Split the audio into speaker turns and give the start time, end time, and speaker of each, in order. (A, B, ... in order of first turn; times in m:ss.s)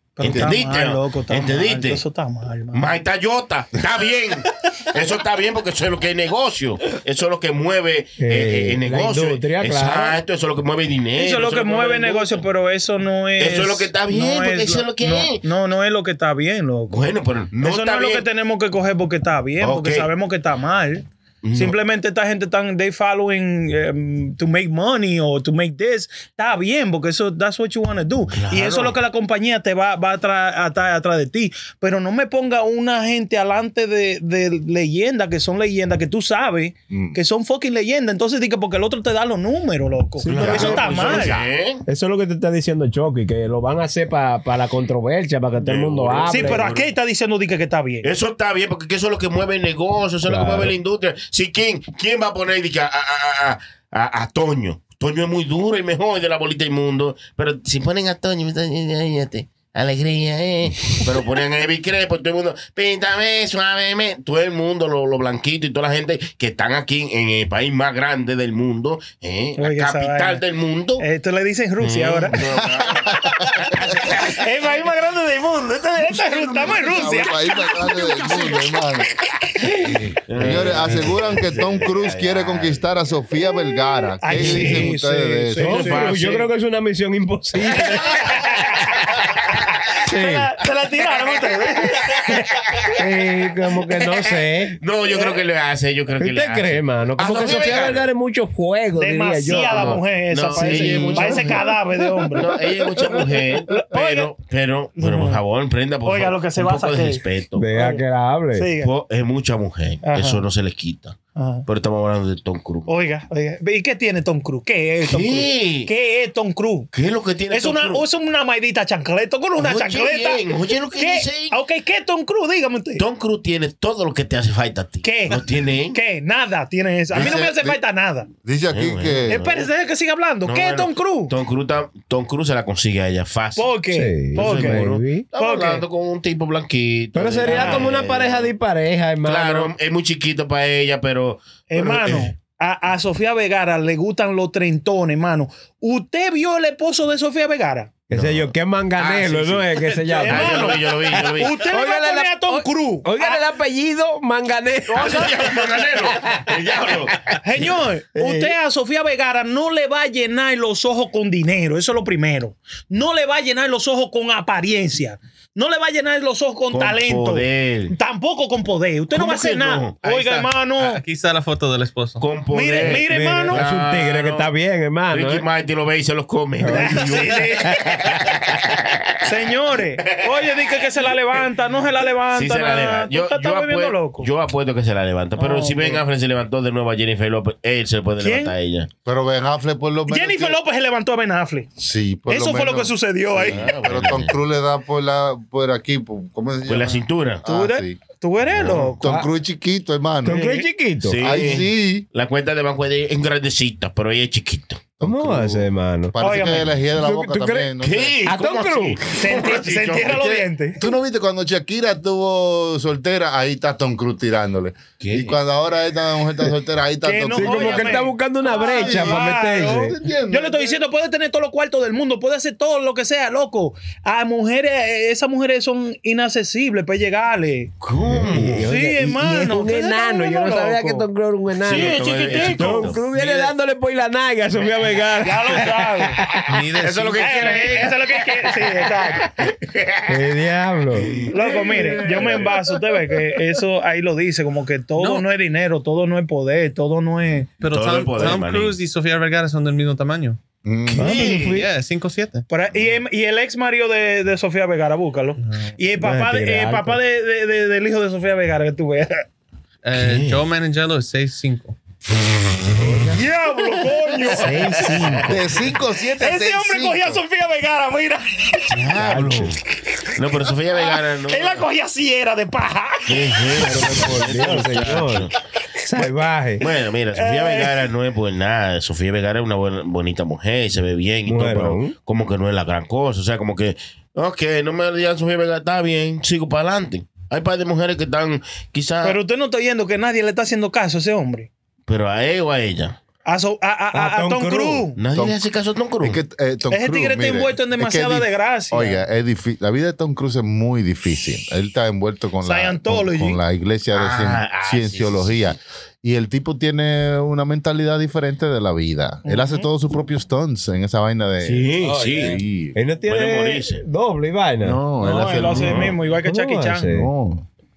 0:00.2-0:02.9 A
0:00.2-0:02.0 B
0:00.2-0:00.6 C
0:02.7-0:12.4 B
0:08.2-0:10.2 D
0:11.2-0:17.1 A
0:13.4-0:15.4 B
0:16.9-0:18.2 B
0:17.6-0:41.3 A
0:19.6-0:20.1 B
0:21.4-0:21.8 B
0:28.3-0:29.0 B
0:36.9-0:37.2 C
0:40.2-0:40.8 D
0:40.2-0:41.8 B
0:40.4-0:41.5 C
0:41.8-0:46.7 D
0:45.6-0:46.9 B
0:46.3-0:48.1 A
0:48.0-1:11.0 B
0:50.3-0:50.7 D
1:09.6-1:10.4 A
1:11.0-1:12.4 A
1:11.8-1:14.5 B
1:12.4-1:13.4 C
1:14.1-1:18.8 A
1:16.0-1:19.1 C
1:19.9-1:25.9 C
1:20.3-1:22.9 B
1:24.2-1:26.2 A
1:24.3-1:24.9 B
1:25.6-1:28.4 D
1:25.6-1:26.5 B
1:27.8-1:28.8 B
1:27.8-1:29.0 A
1:29.9-1:32.6 A
1:30.0-1:30.5 D
1:32.2-1:33.0 B
1:33.0-1:34.8 D
1:33.9-1:38.1 B
1:35.1-1:35.4 A
1:36.2-1:40.0 D
1:39.0-1:44.3 A
1:39.5-1:47.7 B
1:40.5-1:41.4 D
1:45.0-1:45.4 A
1:46.0-1:47.2 A
1:47.6-1:48.7 D
1:47.7-1:48.0 A
1:48.5-1:48.9 A
1:48.8-1:52.9 B
1:50.0-1:50.4 A
1:51.4-1:51.6 A
1:52.9-1:56.9 A
1:55.0-1:55.9 B
1:56.9-1:58.0 B
1:57.5-2:03.0 A
1:59.6-2:01.6 B
2:03.0-2:06.0 B
2:05.0-2:08.3 A
2:07.1-2:07.8 C
2:08.4-2:09.4 C
2:08.7-2:09.7 B
2:09.3-2:11.3 A
2:10.4-2:13.7 B
2:13.6-2:14.8 A
2:13.9-2:15.2 D
2:14.3-2:18.5 B
2:15.4-2:15.8 A
2:17.1-2:19.7 D
2:17.4-2:17.9 A
2:19.2-2:22.3 B
2:21.7-2:27.9 A
2:28.1-2:36.5 D
2:28.1-2:31.6 B
2:30.1-2:33.4 A
2:34.9-2:35.5 A
2:34.9-2:37.7 B
2:37.4-2:51.0 A
2:38.1-2:38.5 D
2:46.7-2:48.0 B
2:49.1-2:50.5 B
2:50.8-2:52.3 E
2:52.2-2:54.5 B
2:52.5-2:53.6 A
2:52.8-2:55.4 D
2:55.1-2:59.2 B
2:56.6-2:58.4 D
2:56.7-2:57.8 A
2:59.2-3:04.3 A
3:00.2-3:00.7 B
3:02.3-3:08.9 B
3:05.4-3:06.0 A
3:08.2-3:08.5 A
3:09.0-3:10.6 C
3:10.1-3:11.7 A
3:11.8-3:18.0 C
3:12.3-3:13.7 A
3:13.4-3:14.3 B
3:16.6-3:17.4 B
3:17.4-3:19.1 A
3:18.5-3:19.0 B
3:19.0-3:20.4 C
3:20.2-3:21.2 D
3:20.3-3:20.6 A
3:21.0-3:24.8 B
3:21.2-3:22.0 C
3:25.0-3:28.2 C
3:25.0-3:26.2 D
3:26.2-3:26.7 A
3:26.9-3:27.7 D
3:27.8-3:30.4 B
3:28.2-3:29.0 D
3:29.2-3:30.8 A
3:30.4-3:40.8 C
3:35.0-3:35.4 B
3:37.0-3:47.7 A
3:37.3-3:40.0 D
3:47.8-3:48.7 B
3:48.0-3:56.6 D
3:48.6-3:51.1 A
3:51.6-3:52.9 A
3:51.6-3:53.5 B
3:55.2-3:56.3 A
3:56.4-3:57.7 E
3:56.8-4:00.2 B
3:57.2-3:59.3 A
4:00.1-4:01.2 D
4:01.0-4:02.7 B
4:01.3-4:07.5 A
4:05.0-4:05.2 E
4:07.6-4:10.4 E
4:07.7-4:08.8 B
4:10.6-4:11.2 C
4:11.0-4:11.6 B
4:11.0-4:11.7 D
4:11.0-4:12.4 E
4:12.5-4:19.2 A
4:15.4-4:15.7 E
4:16.0-4:17.0 D
4:19.8-4:21.8 E
4:19.9-4:20.4 B
4:22.6-4:23.2 B
4:22.7-4:23.1 D
4:23.1-4:25.2 A
4:24.2-4:25.4 D
4:24.8-4:25.2 B
4:25.2-4:27.2 C
4:26.2-4:28.8 A
4:28.7-4:31.6 B
4:29.0-4:29.5 D
4:30.7-4:33.9 A
4:33.1-4:35.4 B
4:33.6-4:36.6 D
4:36.6-4:49.2 B
4:37.1-4:37.8 A
4:41.2-4:41.9 D
4:49.0-4:51.5 A
4:51.9-4:53.0 B
4:53.2-4:55.0 A
4:53.9-4:54.9 D
4:55.0-4:56.2 B
4:55.1-4:55.4 C
4:56.0-5:12.8 C
4:56.7-4:59.0 A
5:02.4-5:03.4 A
5:03.9-5:05.6 B
5:09.2-5:09.7 A
5:11.4-5:12.4 B
5:11.8-5:14.8 D
5:13.0-5:13.8 B
5:14.6-5:15.9 C
5:15.0-5:16.9 A
5:15.4-5:16.0 B
5:16.1-5:17.1 D
5:16.9-5:17.4 C